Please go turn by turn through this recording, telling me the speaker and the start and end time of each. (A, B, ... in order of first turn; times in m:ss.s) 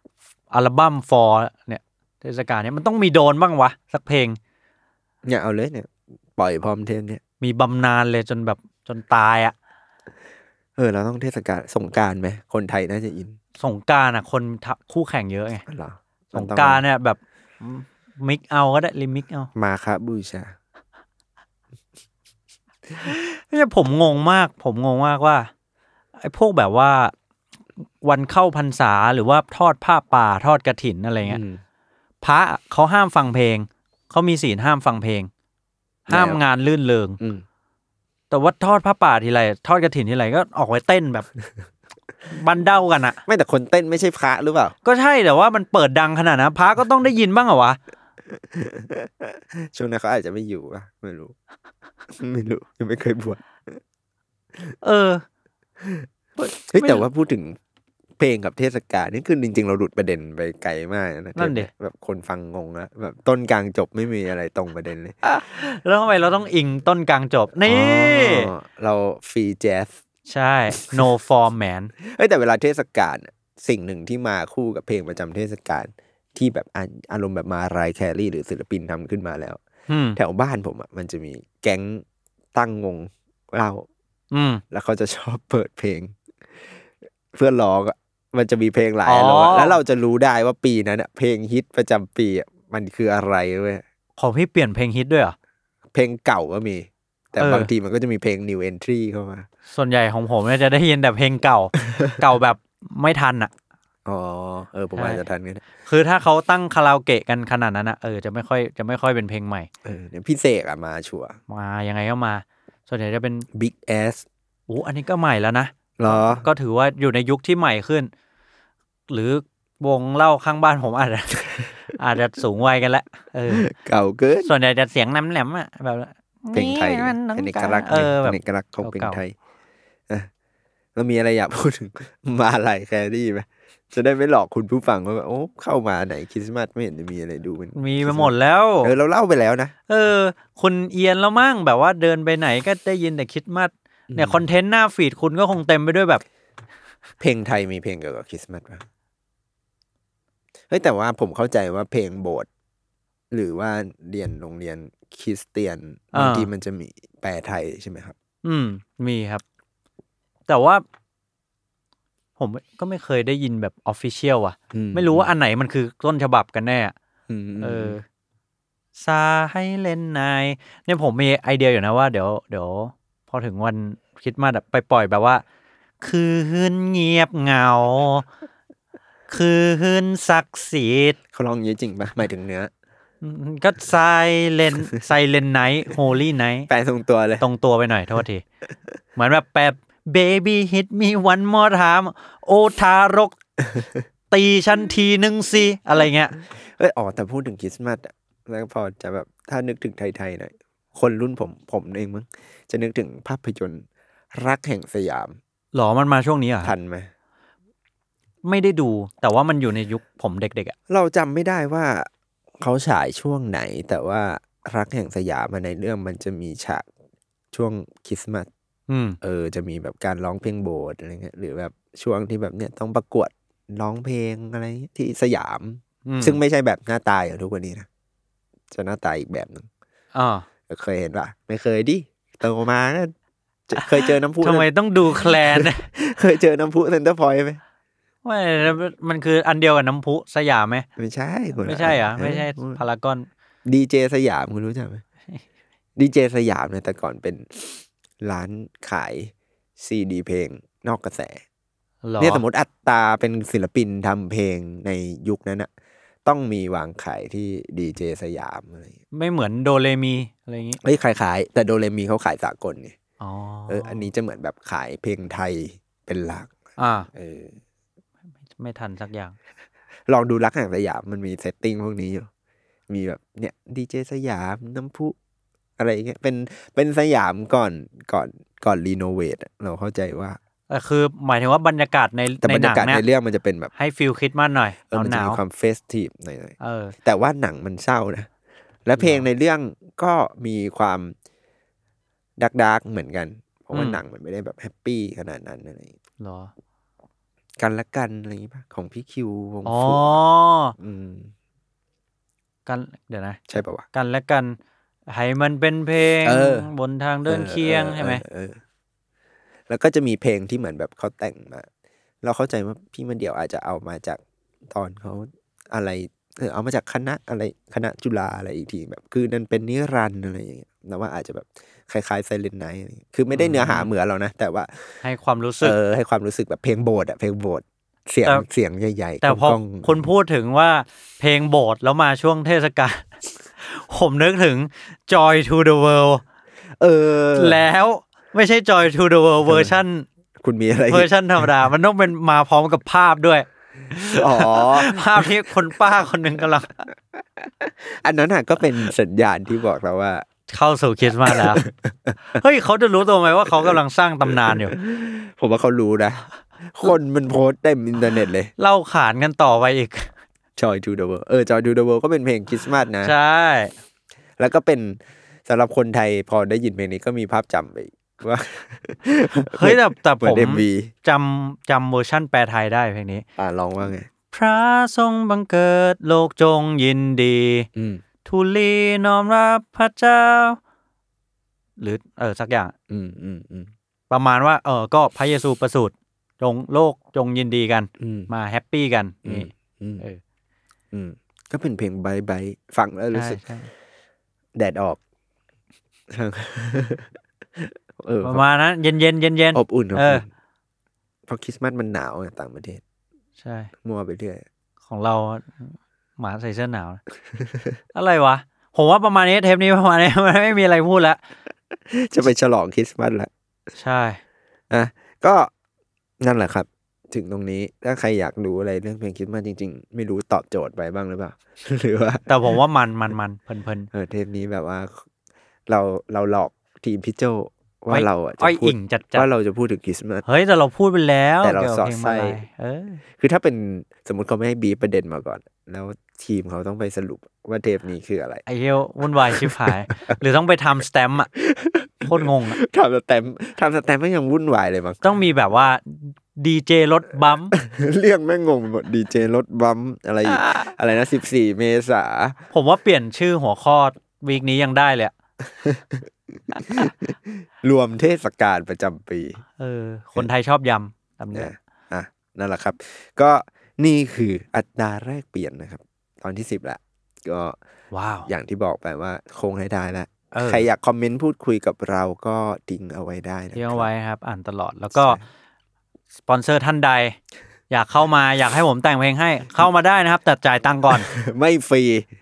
0:00.5-0:04.4 A
0:05.2-0:07.2 B
0:07.4-0:09.6 A
0:10.8-0:13.4 B
0:13.6-0:15.6 A
0:15.7-0:16.8 B
0:16.3-0:19.5 A
0:19.6-0:20.5 B
0:23.0-0:25.5 A
0:26.2-0:27.1 A
0:28.0-0:31.4 A
0:31.2-0:31.6 B
0:32.2-0:35.3 A
0:36.1-0:37.2 A
0:36.1-0:36.4 B
0:37.2-0:37.4 B
0:38.3-0:41.3 A
0:42.3-0:43.2 A
0:43.3-0:44.7 B
0:44.8-0:47.8 A
0:48.3-0:51.3 B
0:52.1-0:53.8 B
0:54.8-0:55.2 A
0:55.8-0:57.6 B
0:56.4-0:57.0 A
0:58.2-1:05.2 B
1:01.4-1:01.7 A
1:05.3-1:08.5 A
1:07.7-1:10.0 B
1:10.3-1:11.9 A
1:10.7-1:11.1 B
1:12.0-1:19.6 B
1:19.9-1:20.2 A
1:20.2-1:23.9 B
1:24.3-1:24.6 A
1:24.7-1:26.2 B
1:27.3-1:33.8 B
1:29.1-1:29.8 A
1:34.2-1:35.4 A
1:35.9-1:39.5 B
1:37.4-1:37.7 A
1:39.7-1:43.5 A
1:44.1-1:45.6 B
1:45.0-1:45.2 A
1:45.9-1:49.7 A
1:49.8-1:51.4 B
1:51.5-1:53.5 A
1:53.5-1:54.2 B
1:54.7-1:58.1 A
1:56.0-1:56.5 B
1:59.1-2:03.7 A
2:03.5-2:04.5 B
2:04.4-2:09.2 A
2:06.5-2:09.4 B
2:11.0-2:19.7 B
2:17.8-2:18.9 A
2:19.9-2:26.2 A
2:24.1-2:24.4 B
2:27.2-2:28.8 B
2:30.7-2:32.5 B
2:33.3-2:38.2 B
2:36.1-2:36.5 A
2:38.4-2:39.4 A
2:40.5-2:40.8 A
2:42.4-2:46.9 A
2:44.7-2:45.3 B
2:47.3-2:48.0 B
2:47.6-2:48.0 A
2:49.0-2:55.4 A
2:56.0-2:58.3 A
2:59.3-3:01.2 A
3:01.3-3:02.7 B
3:03.2-3:06.7 A
3:06.7-3:07.4 B
3:07.4-3:08.4 A
3:09.2-3:13.4 A
3:14.3-3:16.4 A
3:16.4-3:25.4 B
3:25.7-3:26.7 A
3:26.6-3:27.1 B
3:28.4-3:30.8 A
3:30.9-3:32.1 B
3:32.6-3:36.9 B
3:37.5-3:38.5 B
3:38.9-3:39.2 A
3:39.2-3:47.9 B
3:46.1-3:46.4 A
3:48.7-3:49.7 B
3:50.1-3:50.5 A
3:50.7-3:53.1 B
3:53.7-3:57.6 B
3:54.4-3:55.9 A
3:58.2-4:00.9 A
4:01.0-4:02.8 B
4:01.6-4:03.3 A
4:03.7-4:05.0 B
4:06.0-4:11.4 B
4:12.0-4:12.4 A
4:12.2-4:15.7 B
4:16.2-4:19.0 B
4:19.1-4:20.8 A
4:20.8-4:23.0 B
4:23.2-4:24.1 A
4:23.7-4:26.5 B
4:26.8-4:27.1 A
4:27.1-4:27.6 B
4:28.6-4:29.4 A
4:30.1-4:32.3 B
4:32.9-4:35.2 B
4:35.8-4:40.4 B
4:40.7-4:43.0 A
4:42.4-4:43.7 B
4:43.8-4:45.4 A
4:44.9-4:48.3 B
4:46.6-4:47.0 A
4:48.8-4:51.1 B
4:49.0-4:49.3 A
4:52.4-4:56.0 B
4:53.7-4:54.0 A
4:56.2-4:56.5 A
4:57.6-5:00.2 B
4:59.6-5:00.8 A
5:00.8-5:01.3 B
5:02.7-5:03.4 A
5:03.5-5:03.8 B
5:03.9-5:04.6 A
5:05.1-5:08.2 A
5:06.2-5:06.7 B
5:07.3-5:08.6 B
5:09.7-5:11.7 B
5:12.2-5:25.0 B
5:23.3-5:23.9 A
5:25.0-5:25.8 A
5:25.6-5:30.0 B
5:29.2-5:36.2 A
5:36.8-5:37.6 B
5:37.4-5:40.1 A
5:39.5-5:39.8 B
5:40.4-5:41.4 B
5:40.9-5:46.7 A
5:44.0-5:45.3 B
5:47.1-5:50.3 B
5:50.5-5:51.6 A
5:51.2-5:52.2 B
5:52.4-5:54.8 A
5:54.3-5:58.5 B
5:58.6-6:00.1 A
6:00.6-6:03.1 B
6:03.0-6:03.7 A
6:04.4-6:10.9 B
6:09.4-6:13.2 A
6:13.4-6:14.1 B
6:14.3-6:17.7 A
6:17.8-6:18.0 B
6:18.2-6:20.6 A
6:21.8-6:22.7 A
6:22.9-6:23.7 B
6:24.1-6:29.5 A
6:28.0-6:28.3 B
6:29.2-6:30.0 B
6:30.9-6:33.4 B
6:33.1-6:33.7 A
6:34.6-6:35.0 B
6:36.1-6:38.4 B
6:38.2-6:40.2 A
6:39.5-6:40.3 B
6:41.3-6:42.8 B
6:43.4-6:43.7 A
6:43.8-6:44.5 B
6:44.9-6:47.0 A
6:47.9-6:51.2 A
6:51.9-6:53.3 B
6:53.8-6:54.2 A
6:54.7-6:55.5 B
6:56.2-7:02.3 B
7:02.3-7:03.9 A
7:03.9-7:05.0 B
7:05.7-7:10.3 B
7:07.9-7:09.3 A
7:10.3-7:13.0 A
7:11.4-7:12.4 B
7:13.2-7:18.4 B
7:18.5-7:21.3 A
7:19.2-7:20.0 B
7:21.3-7:25.0 B
7:22.1-7:22.6 A
7:25.0-7:27.6 A
7:27.6-7:32.4 B
7:32.5-7:35.1 A
7:35.6-7:39.4 B
7:39.6-7:41.5 A
7:41.3-7:47.6 B
7:47.9-7:48.3 A
7:48.3-7:53.9 B
7:50.3-7:50.7 A
7:53.5-7:55.2 A
7:54.9-7:55.2 B
7:56.3-7:57.2 A
7:57.7-8:01.1 A
8:01.1-8:02.1 B